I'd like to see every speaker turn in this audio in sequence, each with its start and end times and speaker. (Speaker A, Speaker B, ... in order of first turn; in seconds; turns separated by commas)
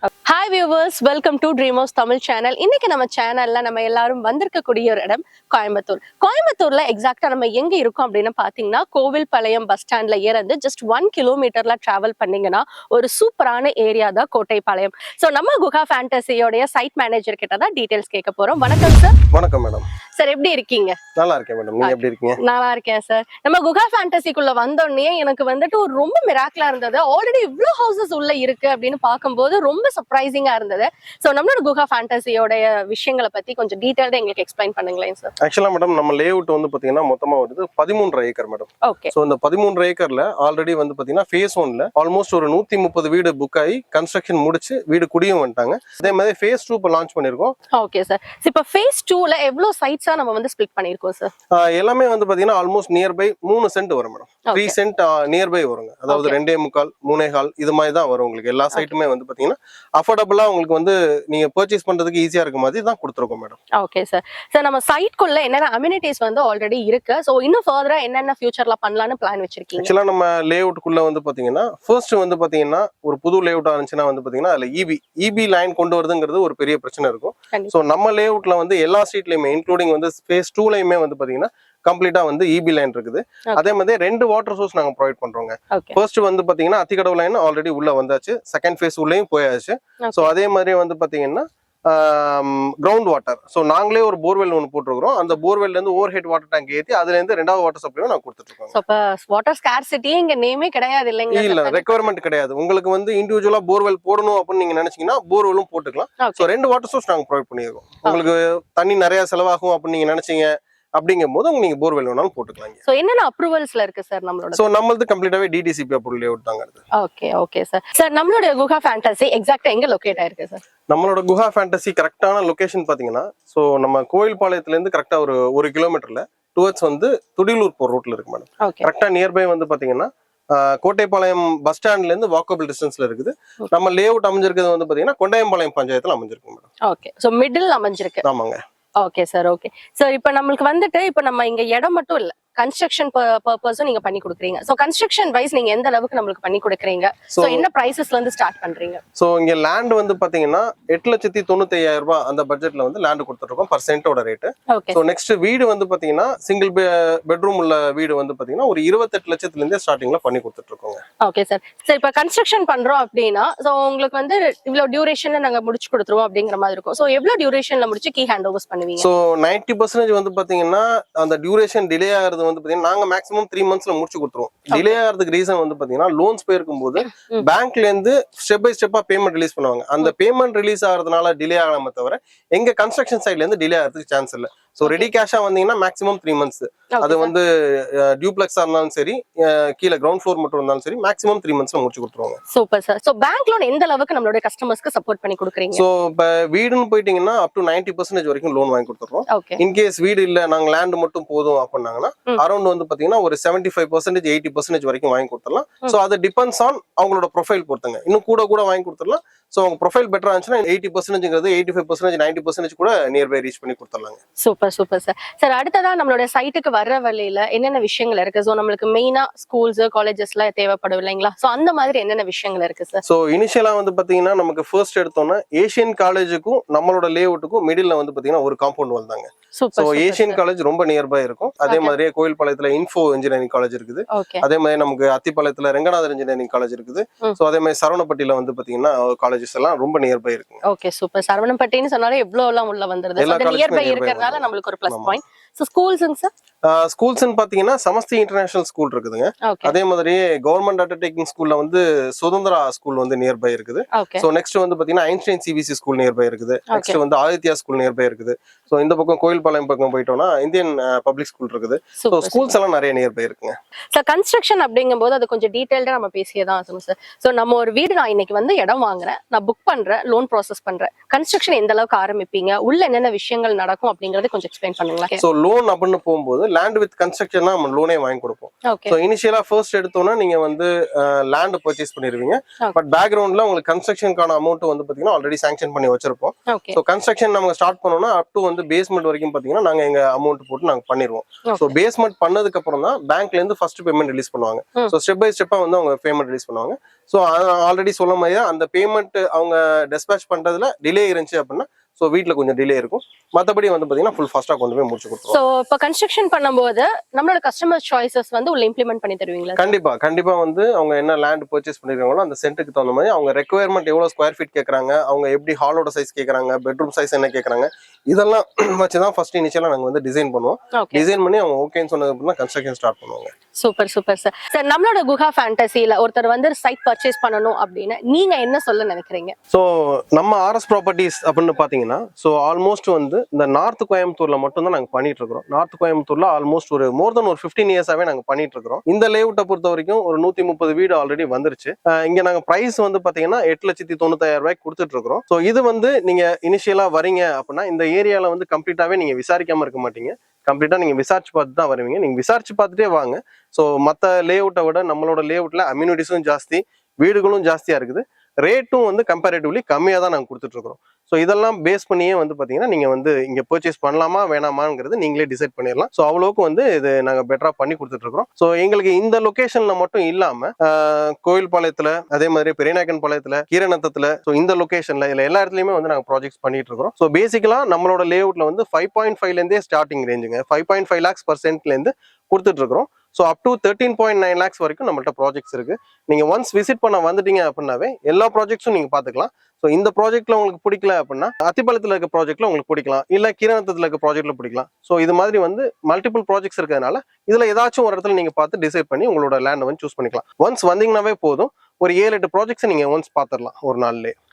Speaker A: 0.3-19.2, Speaker B: 19.3-19.9, Speaker A: 20.2-21.0, Speaker B: 21.2-22.4, Speaker A: 21.8-35.3, Speaker B: 35.4-47.5, Speaker A: 38.9-39.1, Speaker A: 47.8-51.3, Speaker B: 51.5-63.6, Speaker A: 54.5-54.8, Speaker A: 56.1-56.4, Speaker A: 63.8-69.9, Speaker B: 69.8-98.8, Speaker A: 85.7-86.0, Speaker A: 90.0-90.3, Speaker A: 98.7-101.9, Speaker B: 101.3-112.8, Speaker A: 106.2-106.5, Speaker A: 112.8-114.6, Speaker B: 114.5-116.8, Speaker A: 117.0-120.6, Speaker B: 120.9-136.7, Speaker A: 128.6-128.9, Speaker A: 136.8-138.2, Speaker B: 138.2-138.6, Speaker A: 139.0-149.0, Speaker B: 147.3-147.7, Speaker B: 149.2-161.0, Speaker A: 154.7-155.0, Speaker A: 161.2-169.1, Speaker B: 169.0-192.4, Speaker A: 174.7-175.0, Speaker A: 177.1-177.4, Speaker A: 186.9-187.3, Speaker A: 192.5-195.8, Speaker B: 195.7-214.2, Speaker A: 199.3-199.6, Speaker A: 214.4-223.0, Speaker B: 223.0-240.6, Speaker A: 229.6-230.4, Speaker A: 231.7-231.9, Speaker A: 234.1-234.4, Speaker A: 240.6-246.3, Speaker B: 243.2-245.2, Speaker B: 246.7-263.5, Speaker A: 249.5-249.8, Speaker A: 253.9-254.2, Speaker A: 256.7-257.0, Speaker A: 262.0-262.6, Speaker A: 263.9-275.2, Speaker B: 275.2-305.4, Speaker A: 278.7-279.0, Speaker A: 286.5-286.8, Speaker A: 291.5-291.7, Speaker A: 305.3-309.7, Speaker B: 309.6-323.3, Speaker A: 320.8-321.1, Speaker A: 323.6-329.4, Speaker B: 329.5-404.1